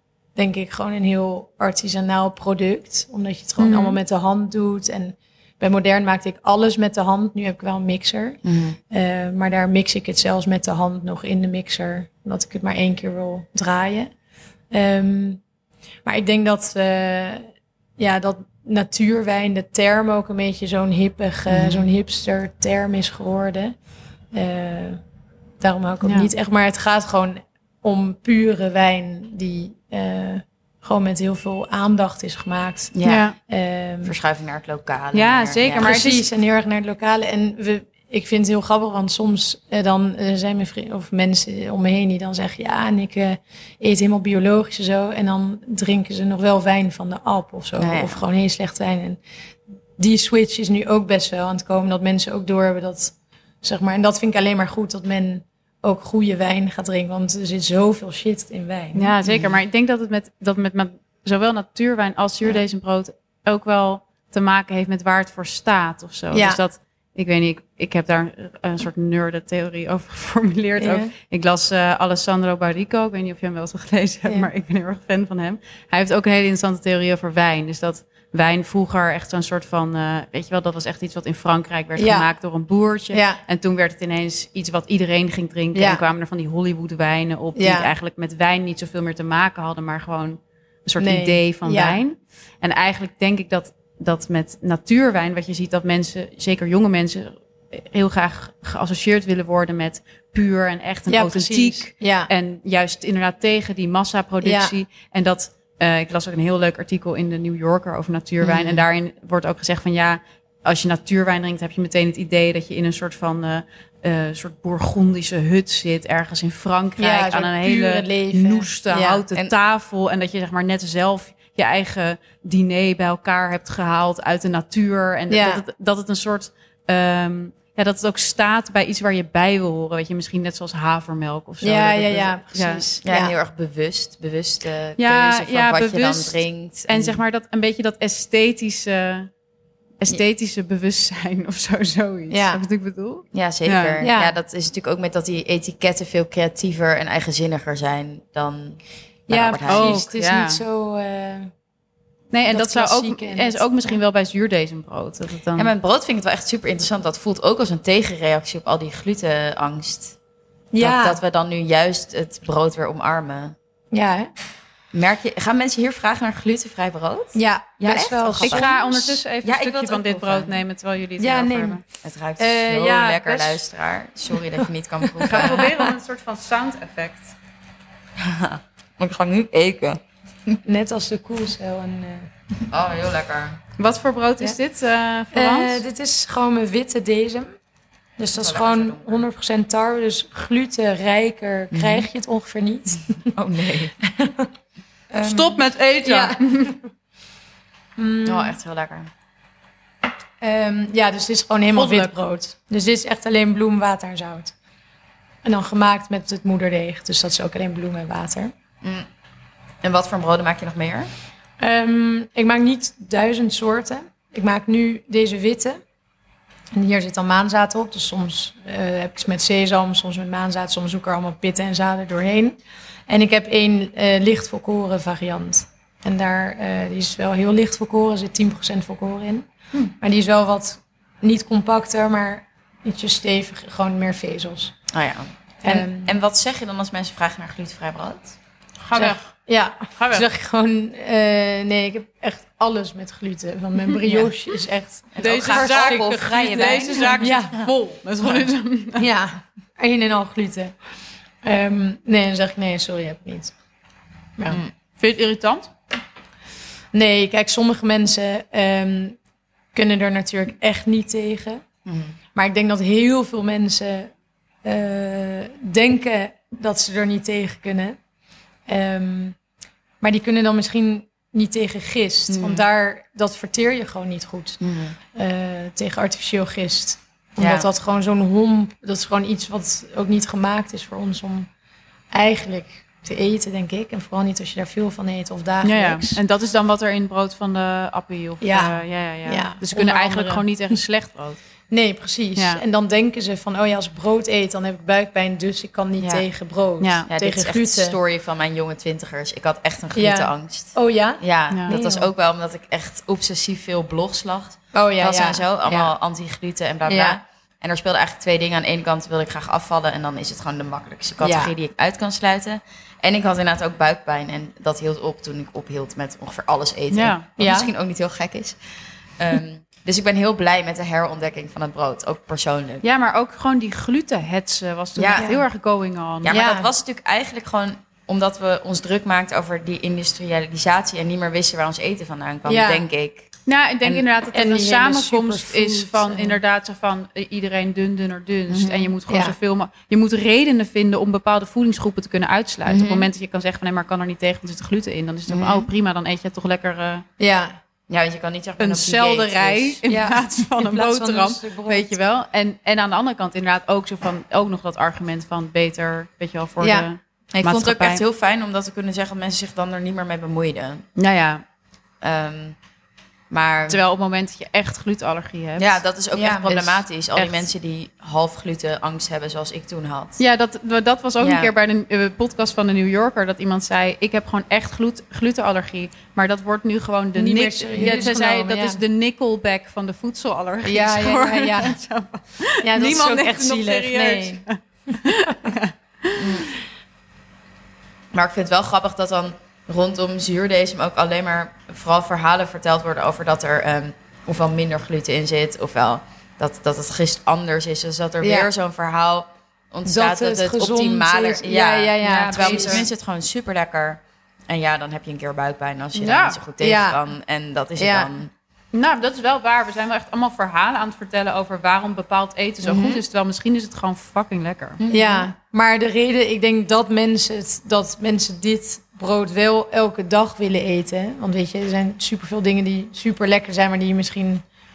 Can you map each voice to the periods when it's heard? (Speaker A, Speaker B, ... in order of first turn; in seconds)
Speaker A: 0.4-14.1, 14.7-15.4, 16.1-17.5, 18.0-23.8, 24.3-25.0, 25.6-34.2, 35.8-49.2, 50.0-59.1, 66.3-66.6, 70.8-71.1, 82.0-82.3, 83.1-83.4, 85.7-86.0, 87.6-87.9, 91.0-92.0, 101.1-102.3, 104.4-104.7, 117.0-119.2, 125.3-125.6, 131.6-133.3, 142.3-142.6, 144.0-144.4, 149.3-151.5, 152.5-154.0, 160.7-161.2, 163.9-164.3, 167.3-169.2, 171.2-171.8, 172.4-173.6, 174.3-175.9, 180.7-182.3, 185.3-187.6, 188.2-193.3, 194.0-194.5, 195.1-196.8, 198.0-198.6, 200.4-204.5, 205.4-208.5, 211.6-215.8, 216.7-234.8, 235.6-236.1, 239.0-247.6, 249.0-250.7, 251.4-253.5, 256.9-259.2, 259.7-261.6, 262.4-264.1, 264.6-268.0, 268.7-269.4, 270.0-281.5, 282.1-286.2, 288.4-290.8, 291.7-298.0, 299.9-302.1, 304.7-305.9, 306.9-307.2, 311.2-311.5, 317.4-317.7, 325.1-325.4, 326.3-326.7, 332.5-332.9, 334.3-336.4, 339.1-339.4, 347.2-347.6, 349.9-351.9, 356.6-356.9, 366.1-366.6, 377.1-378.8, 380.6-381.8, 382.6-384.4, 385.1-385.5, 398.2-398.5, 399.9-402.9, 406.6-407.0, 407.8-408.1, 412.6-413.0, 414.9-424.4
Speaker B: 3.6-4.0, 26.0-26.3, 33.0-33.4, 35.1-36.2, 59.0-132.9, 135.0-139.3, 140.0-144.1, 149.7-150.6, 152.3-155.7, 168.4-171.8, 175.2-177.4, 183.8-185.8, 195.2-196.8, 201.7-202.1, 238.8-239.3, 240.0-240.3, 245.2-249.1, 255.0-255.7, 285.6-291.4, 292.4-292.6, 296.8-297.1, 301.5-301.8, 316.9-317.3, 322.8-326.4, 333.5-347.1, 348.6-358.0, 361.0-361.4, 363.7-365.8, 366.5-367.5, 370.2-386.2, 402.0-402.9, 405.9-406.4, 408.7-414.8
Speaker C: 8.4-8.8, 21.5-21.9, 32.9-33.3, 34.0-36.1, 47.8-48.2, 59.3-59.5, 108.4-108.8, 133.0-137.2, 143.3-150.0, 155.6-160.2, 160.8-163.6, 164.9-168.7, 169.4-170.6, 172.0-175.7, 178.2-180.6, 182.7-183.6, 188.3-189.2, 191.7-192.1, 193.3-193.9, 198.2-199.1, 209.8-211.1, 234.9-238.4, 244.0-244.3, 245.1-247.7, 248.2-248.5, 254.5-254.7, 261.9-262.2, 272.3-272.6, 274.6-275.0, 277.4-277.7, 296.0-296.2, 297.1-318.6, 319.2-322.8, 325.0-325.3, 326.2-333.3, 338.5-338.9, 342.7-343.1, 345.3-345.7, 347.9-349.8, 357.3-360.9, 362.0-362.6, 363.3-363.8, 365.6-370.2, 371.2-371.5, 377.8-378.1, 386.2-386.5, 388.1-408.3, 414.8-415.3